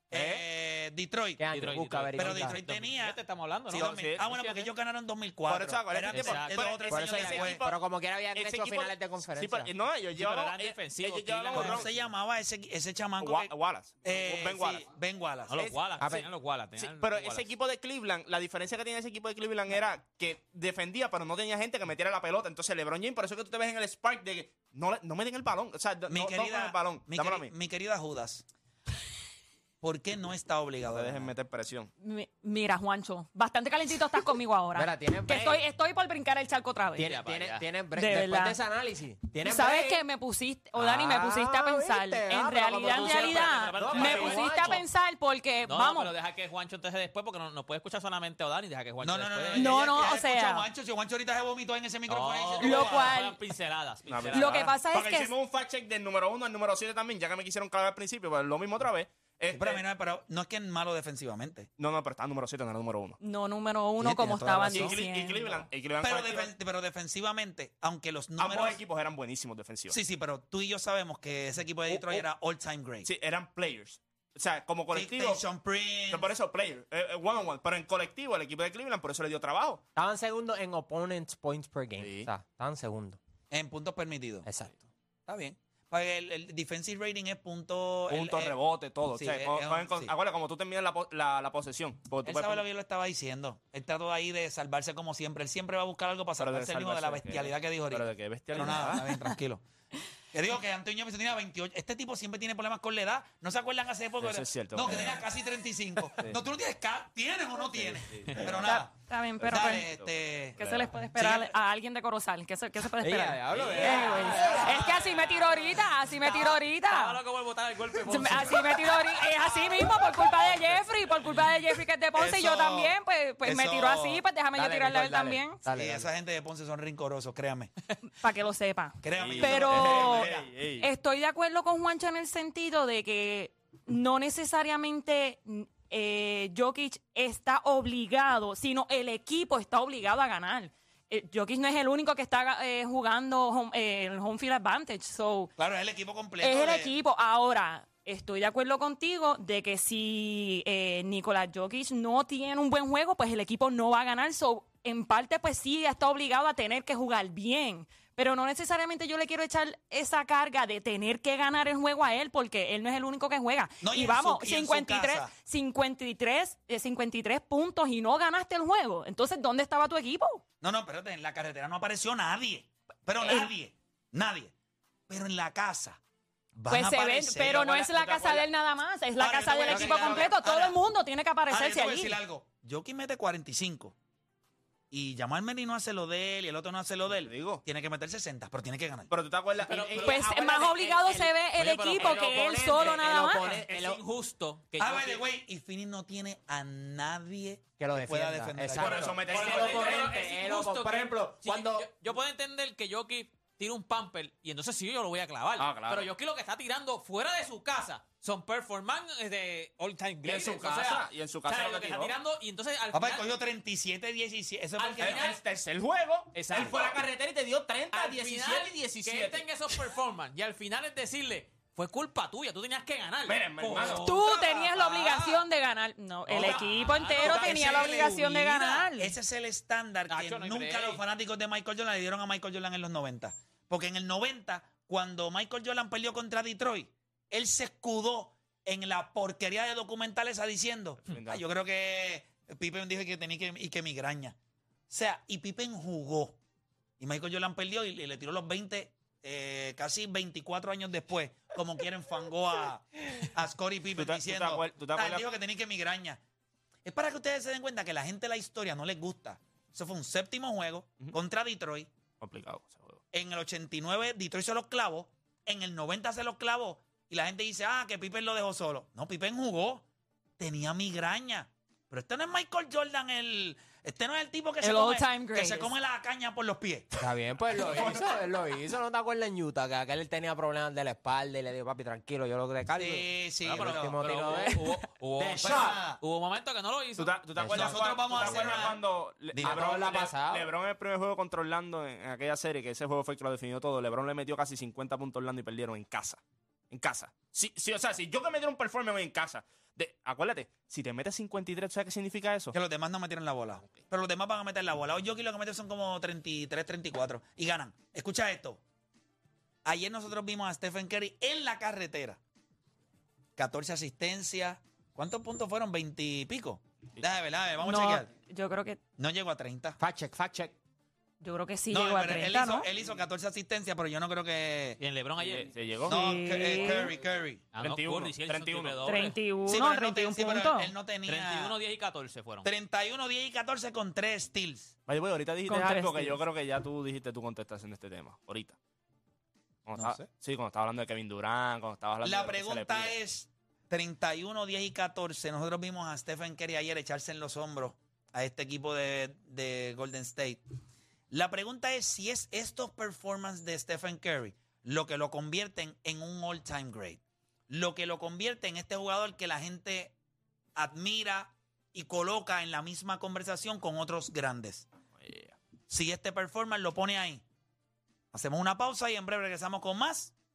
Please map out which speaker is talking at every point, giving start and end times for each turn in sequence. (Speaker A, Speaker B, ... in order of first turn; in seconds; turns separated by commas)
Speaker A: 0.1-1.5, Speaker B: 0.1-0.4, Speaker C: 1.4-2.6, Speaker D: 1.5-4.7, Speaker A: 2.1-3.2, Speaker A: 3.7-7.7, Speaker B: 3.7-4.2, Speaker B: 5.5-7.6, Speaker D: 6.1-6.8, Speaker C: 6.9-9.7, Speaker B: 8.4-11.9, Speaker D: 10.1-11.9, Speaker A: 11.5-15.7, Speaker B: 13.2-14.9, Speaker D: 15.5-17.5, Speaker C: 16.0-16.3, Speaker B: 16.8-27.5, Speaker A: 26.1-28.4, Speaker A: 29.8-31.3, Speaker B: 30.8-31.9, Speaker E: 32.0-37.1, Speaker C: 34.8-35.6, Speaker C: 37.0-40.0, Speaker D: 37.0-37.7, Speaker E: 38.0-38.6, Speaker E: 39.4-46.1, Speaker C: 40.8-44.8, Speaker D: 42.8-44.8, Speaker D: 45.7-49.8, Speaker A: 49.0-53.2, Speaker E: 49.5-50.7, Speaker D: 52.1-54.7, Speaker E: 52.6-53.4, Speaker B: 54.0-59.8, Speaker E: 54.3-55.3, Speaker A: 59.5-61.7, Speaker B: 61.8-63.2, Speaker E: 63.2-65.7, Speaker B: 64.0-66.5, Speaker C: 64.6-65.0, Speaker A: 66.0-68.8, Speaker B: 68.4-70.0, Speaker A: 69.9-73.1, Speaker B: 71.9-72.2, Speaker B: 73.0-75.4, Speaker A: 74.9-76.3, Speaker B: 76.1-79.8, Speaker C: 80.0-83.2, Speaker B: 82.0-82.3, Speaker A: 83.5-84.5, Speaker C: 84.5-84.7, Speaker A: 85.3-90.1, Speaker B: 88.1-92.6, Speaker A: 92.2-99.6, Speaker B: 96.4-99.1, Speaker A: 100.3-110.6, Speaker B: 104.2-105.3, Speaker B: 107.8-108.6, Speaker E: 108.6-109.9, Speaker E: 110.6-117.2, Speaker B: 110.6-111.0, Speaker A: 111.2-111.5, Speaker C: 113.0-114.6, Speaker D: 113.5-120.3, Speaker E: 118.1-125.6, Speaker B: 122.2-122.5, Speaker A: 122.4-122.9, Speaker A: 123.4-124.2, Speaker C: 125.6-126.1, Speaker A: 125.7-127.7, Speaker E: 128.2-145.5, Speaker A: 129.0-130.5, Speaker B: 129.1-130.9, Speaker A: 145.6-146.9, Speaker E: 146.4-170.4, Speaker A: 163.8-165.3, Speaker A: 170.6-174.5, Speaker E: 173.2-173.5, Speaker A: 175.1-176.0, Speaker A: 176.6-177.9, Speaker E: 176.7-182.2, Speaker B: 177.9-178.4, Speaker A: 179.2-180.8, Speaker C: 179.7-180.1, Speaker A: 181.5-183.9, Speaker A: 184.9-189.1, Speaker B: 187.2-187.6, Speaker B: 189.1-190.6, Speaker D: 189.7-190.2, Speaker E: 190.0-193.6, Speaker C: 190.0-194.0, Speaker D: 191.6-195.2, Speaker A: 194.8-199.4, Speaker C: 197.8-201.9, Speaker B: 198.7-200.1, Speaker D: 199.2-213.4, Speaker B: 205.6-206.1, Speaker B: 210.2-212.1, Speaker A: 212.9-215.4, Speaker D: 214.8-215.4, Speaker B: 215.0-219.8, Speaker D: 216.3-216.9, Speaker A: 216.5-216.8, Speaker D: 217.9-225.4, Speaker B: 223.3-224.3, Speaker E: 223.8-229.1, Speaker D: 226.3-228.0, Speaker A: 227.2-244.4, Speaker B: 227.2-227.9, Speaker D: 230.1-231.0, Speaker B: 241.0-241.4, Speaker A: 244.9-246.4, Speaker A: 247.0-256.2, Speaker B: 254.0-255.3, Speaker A: 256.9-261.9, Speaker B: 262.2-263.0, Speaker A: 263.1-269.9, Speaker A: 270.4-276.9, Speaker E: 274.6-275.7, Speaker C: 277.0-285.8, Speaker B: 277.7-278.0, Speaker A: 282.8-284.4, Speaker D: 283.4-287.2, Speaker A: 285.2-286.0, Speaker B: 287.0-296.2, Speaker C: 287.4-288.3, Speaker A: 287.5-289.8, Speaker C: 289.4-290.5, Speaker B: 296.7-302.6, Speaker A: 302.5-308.6, Speaker A: 309.6-312.2, Speaker A: 313.4-318.1, Speaker E: 317.6-318.8, Speaker A: 319.0-319.8, Speaker C: 319.8-320.6, Speaker E: 321.2-322.7, Speaker A: 321.7-324.8, Speaker D: 324.8-325.8, Speaker B: 325.2-325.9, Speaker A: 325.9-327.4, Speaker E: 325.9-327.0, Speaker D: 327.5-329.2, Speaker B: 327.6-329.0, Speaker E: 328.9-330.7, Speaker A: 329.5-331.6, Speaker D: 331.1-332.5, Speaker A: 332.4-334.8, Speaker B: 334.9-338.6, Speaker E: 335.5-336.2, Speaker B: 339.7-342.9, Speaker A: 339.8-340.1, Speaker A: 342.0-350.4, Speaker A: 351.1-359.9, Speaker A: 360.6-364.7, Speaker B: 365.0-365.4, Speaker A: 365.7-367.2, Speaker A: 368.1-370.1